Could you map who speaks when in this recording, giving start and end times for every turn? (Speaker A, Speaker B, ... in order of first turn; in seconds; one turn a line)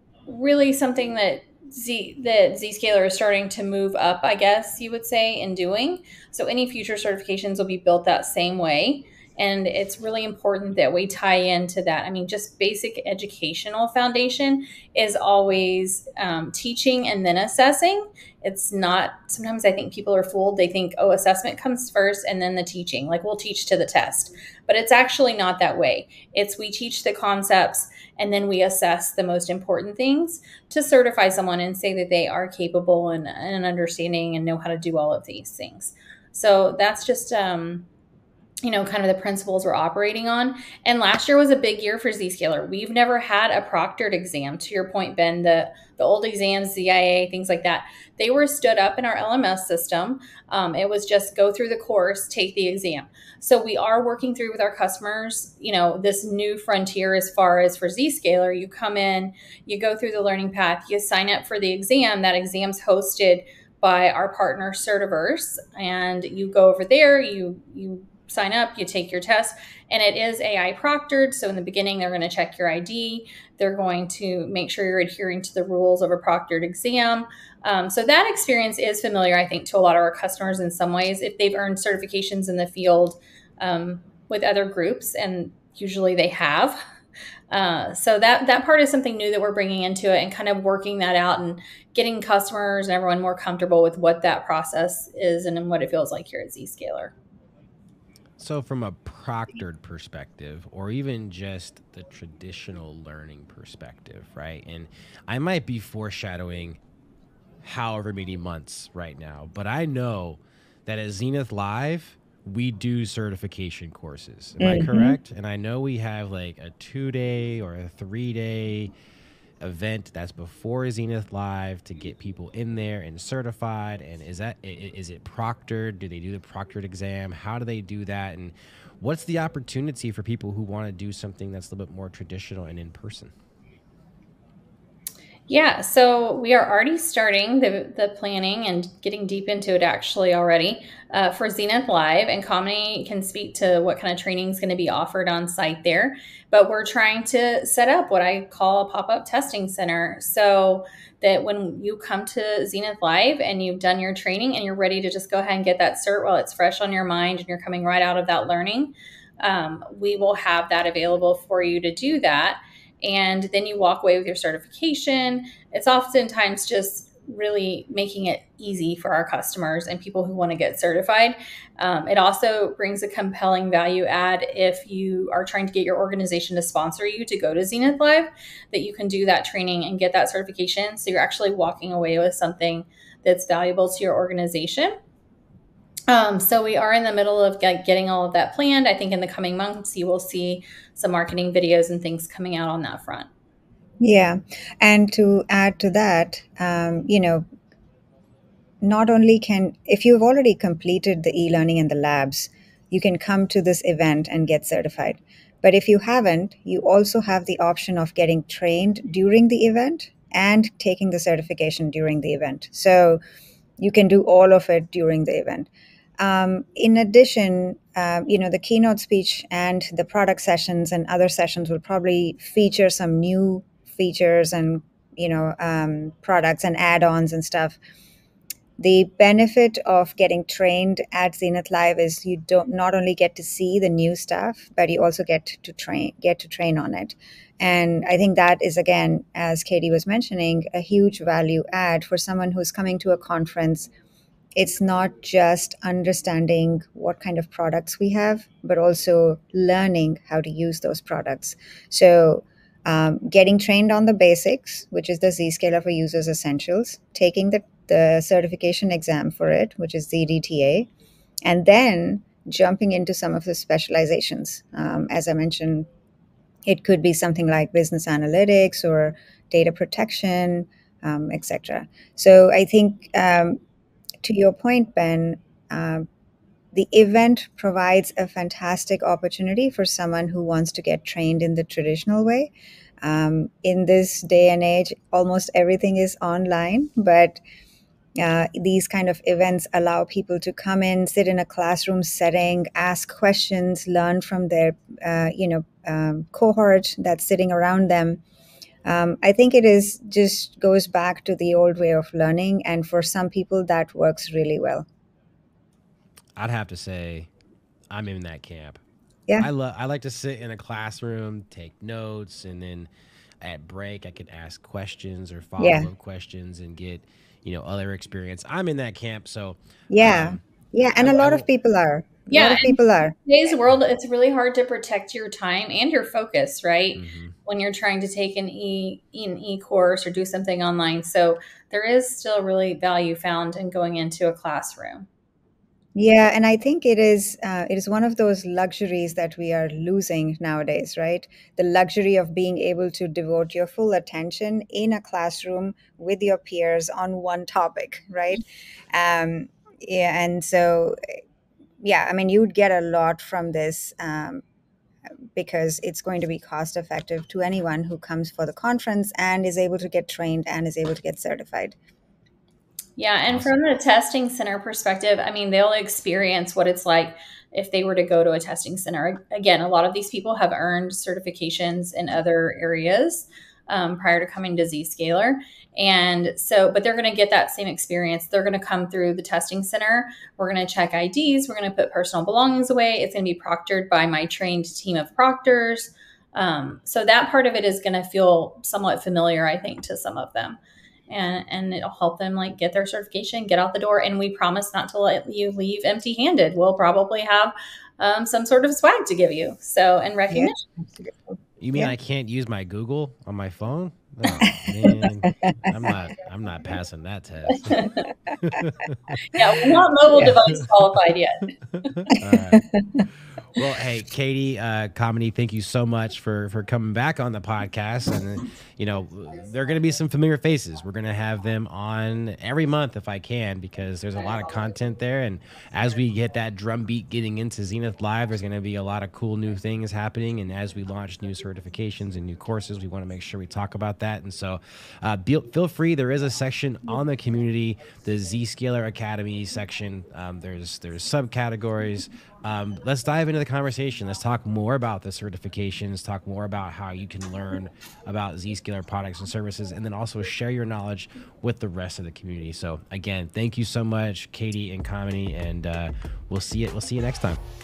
Speaker A: 0.3-37.9
Speaker A: 38.6-86.8
Speaker A: 87.5-97.1
Speaker B: 98.4-106.8
Speaker B: 107.6-118.9
Speaker C: 114.6-115.2
Speaker B: 119.6-133.3
Speaker A: 135.5-184.9
Speaker A: 186.1-193.3
Speaker C: 194.0-197.4
Speaker C: 198.8-213.2
Speaker C: 213.8-215.7
Speaker C: 216.2-227.8
Speaker C: 228.8-243.9
Speaker C: 244.6-260.9
Speaker C: 261.4-265.9
Speaker C: 266.6-273.6
Speaker C: 274.2-276.1
Speaker C: 276.7-282.5
Speaker C: 283.0-287.4
Speaker C: 288.2-298.2
Speaker C: 298.9-304.8
Speaker B: 306.4-307.3
Speaker B: 307.9-308.8
Speaker B: 309.4-312.9
Speaker B: 313.4-320.4
Speaker C: 315.6-315.9
Speaker C: 319.9-323.1
Speaker B: 320.9-321.4
Speaker A: 322.3-335.1
Speaker B: 326.9-327.3
Speaker C: 335.9-351.0
Speaker C: 351.8-354.4
Speaker C: 355.3-361.7
Speaker A: 363.0-390.6
Speaker A: 391.1-400.6
Speaker C: 400.3-401.9
Speaker B: 401.6-409.1
Speaker C: 404.4-405.9
Speaker A: 407.7-408.1
Speaker A: 409.3-411.9
Speaker C: 410.1-410.4
Speaker B: 412.0-412.6
Speaker C: 412.3-413.0
Speaker B: 413.5-457.4